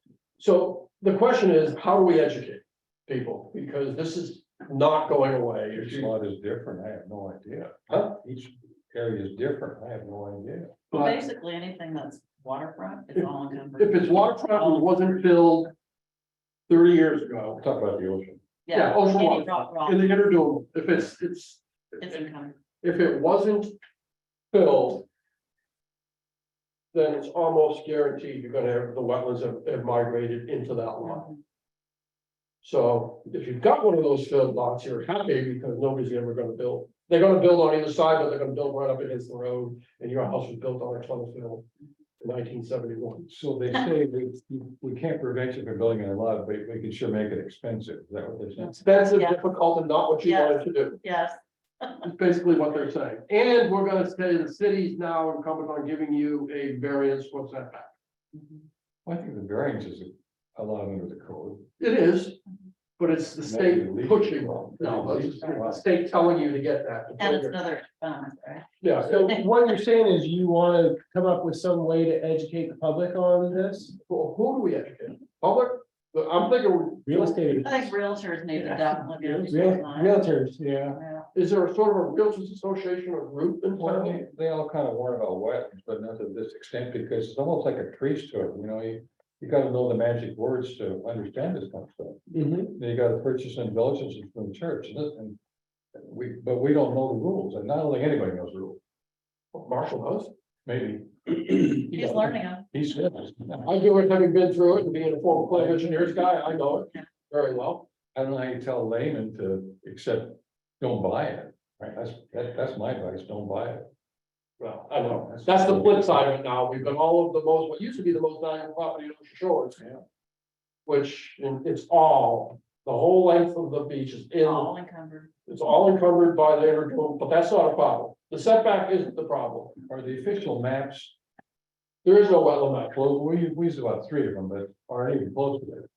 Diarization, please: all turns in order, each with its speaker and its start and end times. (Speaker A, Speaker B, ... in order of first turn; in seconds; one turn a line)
Speaker A: 0.4-6.1
Speaker B: 5.7-10.8
Speaker A: 10.9-11.2
Speaker C: 10.9-14.9
Speaker A: 13.2-15.7
Speaker A: 16.7-17.6
Speaker B: 17.6-18.4
Speaker C: 18.7-20.0
Speaker A: 18.7-22.2
Speaker C: 22.0-22.6
Speaker A: 22.8-23.7
Speaker A: 24.5-25.1
Speaker A: 26.9-31.3
Speaker C: 31.0-31.4
Speaker A: 32.6-41.7
Speaker A: 42.2-43.3
Speaker B: 43.3-48.8
Speaker C: 48.6-49.4
Speaker A: 48.8-51.0
Speaker C: 50.2-52.0
Speaker A: 52.0-57.9
Speaker C: 58.3-58.6
Speaker B: 59.0-61.7
Speaker A: 61.8-62.4
Speaker A: 63.0-67.6
Speaker B: 63.5-65.8
Speaker C: 67.2-68.8
Speaker A: 68.8-69.4
Speaker D: 69.0-73.9
Speaker A: 74.1-77.7
Speaker D: 77.1-77.9
Speaker C: 77.6-80.2
Speaker D: 78.6-81.0
Speaker C: 80.9-81.3
Speaker A: 81.3-84.2
Speaker B: 83.8-95.4
Speaker D: 92.3-92.8
Speaker B: 96.0-98.8
Speaker A: 99.5-100.3
Speaker B: 100.7-103.7
Speaker C: 101.9-102.7
Speaker A: 103.6-107.9
Speaker B: 105.5-106.1
Speaker B: 108.2-113.9
Speaker A: 114.6-119.8
Speaker B: 115.3-116.1
Speaker A: 120.9-124.7
Speaker C: 124.4-125.3
Speaker A: 125.5-129.8
Speaker B: 129.9-131.2
Speaker A: 132.0-133.0
Speaker B: 132.9-135.9